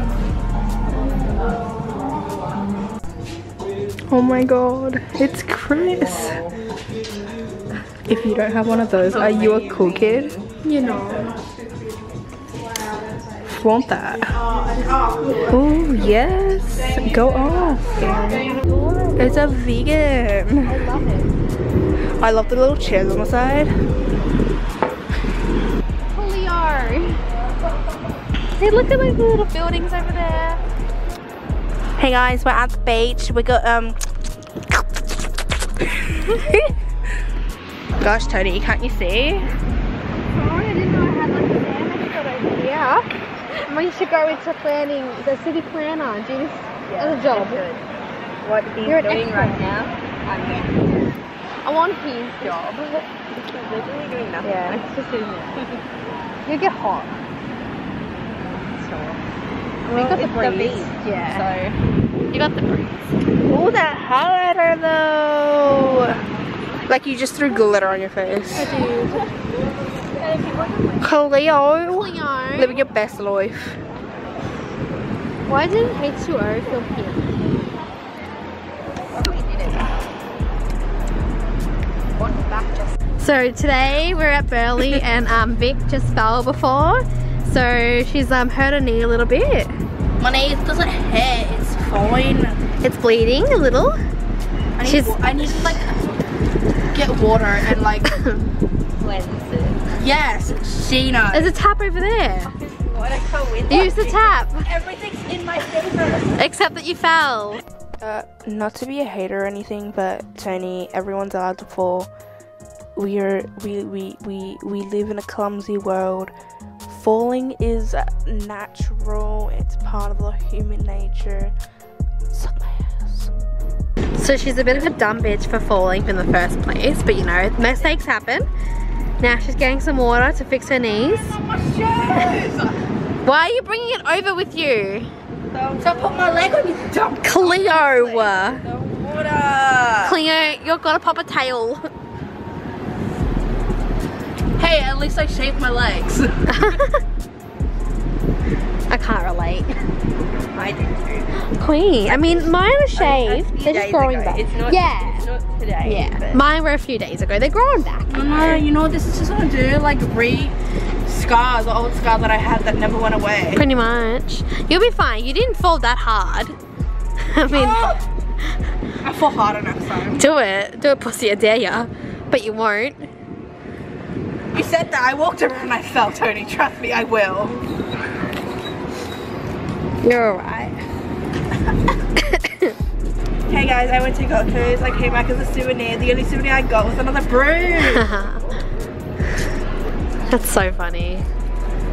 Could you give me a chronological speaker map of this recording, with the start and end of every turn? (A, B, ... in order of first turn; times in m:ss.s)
0:04.1-0:06.4 A
0:08.1-0:10.3 A
0:09.1-0:10.4 B
0:10.6-0:11.3 C
0:13.4-0:14.4 A
0:15.4-0:18.4 A
0:17.9-0:19.4 C
0:19.2-0:20.9 A
0:20.6-0:21.3 C
0:22.2-0:23.7 A
0:26.1-0:27.2 C
0:28.5-0:30.6 C
0:32.0-0:34.0 A
0:34.7-0:35.0 A
0:35.8-0:36.7 A
0:38.0-0:39.5 A
0:40.2-0:43.1 C
0:43.6-0:47.6 C
0:46.8-0:47.8 B
0:48.4-0:51.0 B
0:48.8-0:49.6 C
0:51.6-0:53.1 C
0:53.4-0:54.9 B
0:54.4-0:55.5 C
0:56.4-0:57.2 C
0:58.5-0:59.2 B
0:59.9-1:01.5 C
0:59.9-1:01.8 B
1:02.3-1:03.1 C
1:03.4-1:06.2 A
1:06.9-1:08.7 A
1:08.5-1:09.2 C
1:10.2-1:11.0 B
1:11.0-1:13.8 A
1:11.9-1:12.8 C
1:15.5-1:17.5 C
1:19.1-1:20.2 B
1:23.2-1:29.8 C
1:30.2-1:32.6 A
1:32.8-1:34.0 C
1:34.8-1:35.9 A
1:34.8-1:35.8 C
1:36.9-1:38.2 A
1:38.1-1:38.4 C
1:39.0-1:39.8 B
1:40.0-1:41.5 A
1:41.3-1:42.5 C
1:42.4-1:44.3 B
1:43.7-1:44.7 C
1:44.6-1:46.4 A
1:46.4-1:47.6 C
1:48.0-1:52.1 A
1:53.0-1:56.3 A
1:56.9-2:01.5 A
2:02.3-2:03.3 A
2:04.1-2:08.5 C
2:09.2-2:11.4 C
2:11.3-2:12.8 A
2:13.2-2:15.1 C
2:15.5-2:20.2 A
2:15.6-2:16.6 B
2:17.2-2:18.6 C
2:18.1-2:18.7 B
2:20.0-2:21.8 C
2:24.6-2:26.8 A
2:26.5-2:27.0 C
2:28.9-2:29.8 C
2:30.5-2:31.3 B
2:31.4-2:35.3 C
2:32.0-2:36.5 B
2:35.8-2:38.6 C
2:38.1-2:43.6 A
2:43.5-2:46.6 C
2:47.2-2:48.5 C
2:47.5-2:48.0 A
2:49.0-2:50.2 A
2:50.2-2:53.1 C
2:54.5-2:57.6 A
3:00.0-3:00.8 C
3:02.2-3:02.7 C
3:03.5-3:08.1 A
3:07.8-3:08.4 C
3:10.3-3:11.3 C